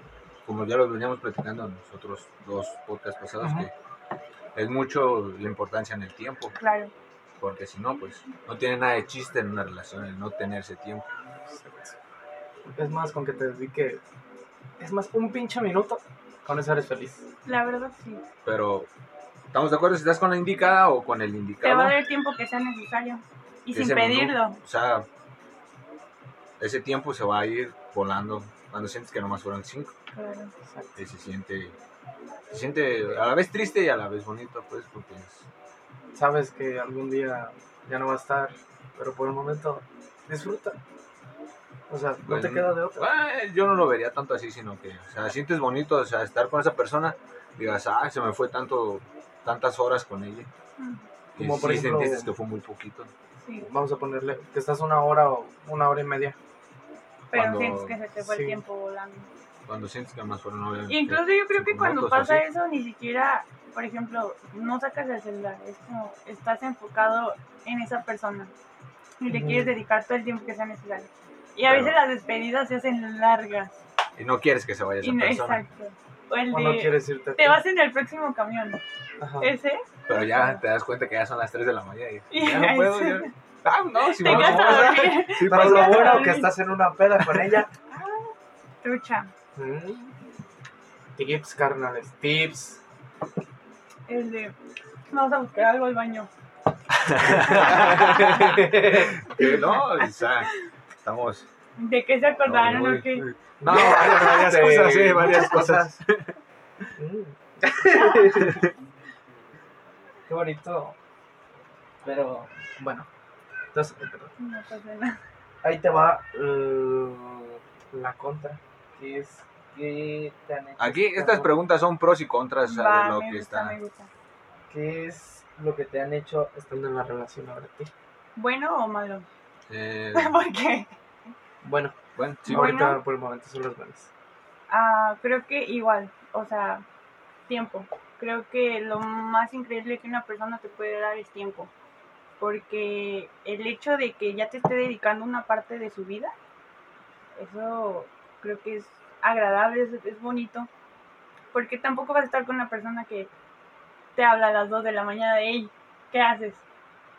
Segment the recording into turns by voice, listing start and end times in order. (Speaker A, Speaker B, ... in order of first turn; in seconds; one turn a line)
Speaker A: 0.4-3.7
Speaker B: 3.4-3.7
Speaker A: 4.5-6.5
Speaker C: 6.5-6.9
Speaker A: 7.4-11.1
Speaker B: 11.4-11.9
Speaker B: 12.8-14.0
Speaker B: 14.8-17.3
Speaker C: 17.4-18.2
Speaker A: 18.4-18.9
Speaker A: 19.5-21.9
Speaker C: 21.6-24.6
Speaker A: 23.7-25.1
Speaker A: 26.6-29.9
Speaker C: 30.1-30.5
Speaker B: 30.6-30.9
Speaker A: 30.9-31.8
Speaker A: 32.5-35.5
Speaker B: 36.1-40.8
Speaker B: 41.9-43.1
Speaker A: 42.2-50.5
Speaker C: 50.8-51.0
Speaker B: 51.4-52.3
Speaker A: 51.4-53.1
Speaker C: 53.4-53.7
Speaker B: 53.6-56.4
Speaker C: 57.3-59.3
Speaker A: 57.3-57.9
Speaker B: 58.2-58.6
Speaker A: 59.7-62.4
Speaker C: 60.9-68.5
Speaker C: 69.2-73.7
Speaker B: 69.3-69.8
Speaker A: 71.6-72.0
Speaker A: 74.2-75.6
Speaker C: 75.0-78.8
Speaker B: 76.5-77.6
Speaker B: 79.2-79.5
Speaker C: 79.4-80.6
Speaker A: 80.1-86.3
Speaker C: 82.3-83.3
Speaker C: 84.0-86.5
Speaker B: 84.2-87.7
Speaker C: 87.9-88.3
Speaker C: 88.8-89.3
Speaker B: 89.5-90.1
Speaker B: 91.2-92.8
Speaker C: 94.1-94.5
Speaker C: 95.1-96.3
Speaker A: 97.0-100.5
Speaker B: 97.3-99.3
Speaker C: 97.4-98.5
Speaker A: 101.0-101.5
Speaker C: 101.8-103.2
Speaker A: 102.5-106.3
Speaker B: 103.6-106.0
Speaker B: 107.0-108.7
Speaker A: 108.4-108.7
Speaker B: 110.3-111.0
Speaker B: 112.0-113.1
Speaker B: 113.7-114.3
Speaker C: 114.4-115.2
Speaker B: 115.6-121.5
Speaker A: 120.8-123.8
Speaker C: 122.7-124.1
Speaker B: 124.7-127.9
Speaker C: 128.3-129.3
Speaker A: 129.7-130.4
Speaker C: 130.1-130.9
Speaker B: 131.6-131.9
Speaker A: 132.2-132.8
Speaker C: 132.4-133.0
Speaker B: 132.4-134.1
Speaker C: 134.7-136.8
Speaker C: 137.5-141.7
Speaker C: 142.4-146.3
Speaker C: 147.4-150.7
Speaker C: 151.5-153.3
Speaker C: 154.1-156.6